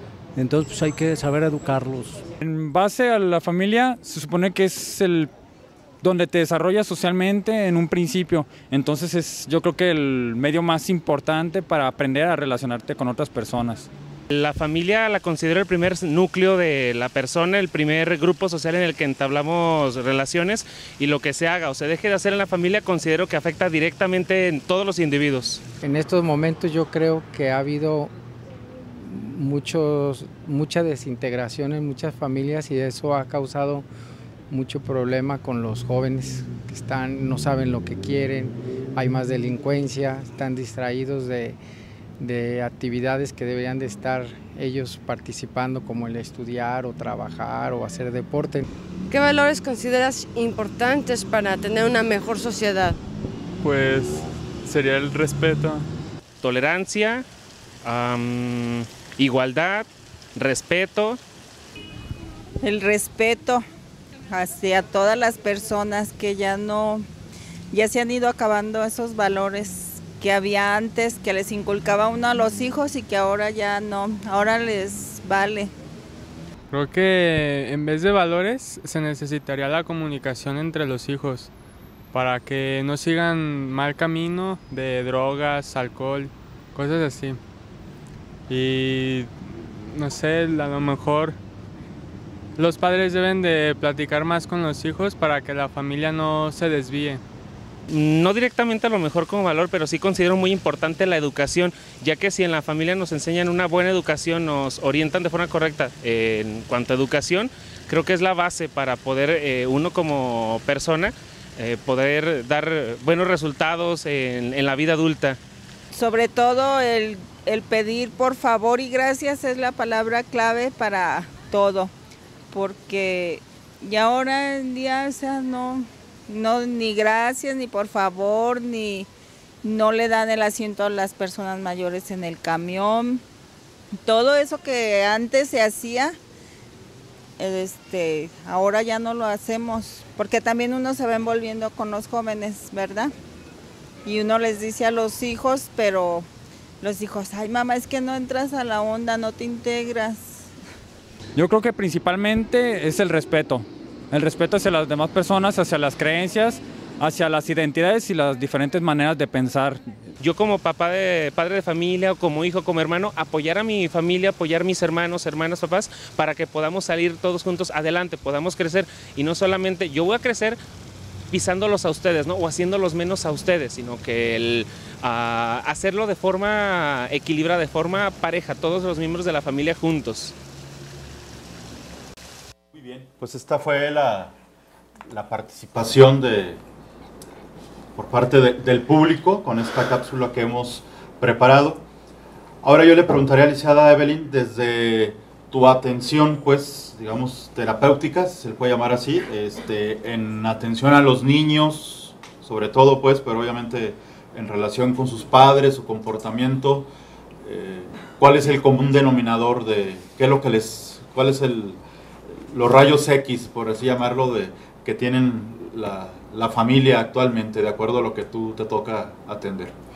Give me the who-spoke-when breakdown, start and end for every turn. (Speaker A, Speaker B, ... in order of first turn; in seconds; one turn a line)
Speaker A: 0.3-2.3
Speaker B: 2.4-5.3
Speaker B: 6.0-13.9
Speaker C: 14.3-25.6
Speaker D: 25.8-28.1
Speaker D: 29.0-33.9
Speaker D: 34.5-41.6
Speaker D: 42.2-48.7
Speaker E: 49.1-53.0
Speaker F: 53.6-55.8
Speaker C: 56.4-57.3
Speaker C: 57.8-61.2
Speaker G: 62.6-63.6
Speaker G: 64.3-67.0
Speaker G: 67.7-75.7
Speaker F: 76.7-81.5
Speaker F: 82.1-87.4
Speaker F: 88.5-91.4
Speaker F: 92.6-97.2
Speaker C: 97.9-115.4
Speaker G: 115.9-121.9
Speaker G: 122.5-129.1
Speaker G: 129.6-133.2
Speaker G: 134.1-136.2
Speaker G: 137.4-143.1
Speaker G: 144.1-146.3
Speaker G: 146.8-150.5
Speaker B: 151.4-159.8
Speaker C: 160.2-170.6
Speaker C: 171.3-180.3
Speaker H: 182.7-184.3
Speaker H: 185.1-186.6
Speaker H: 188.0-191.8
Speaker H: 192.6-206.9
Speaker H: 207.4-211.8
Speaker H: 212.5-219.7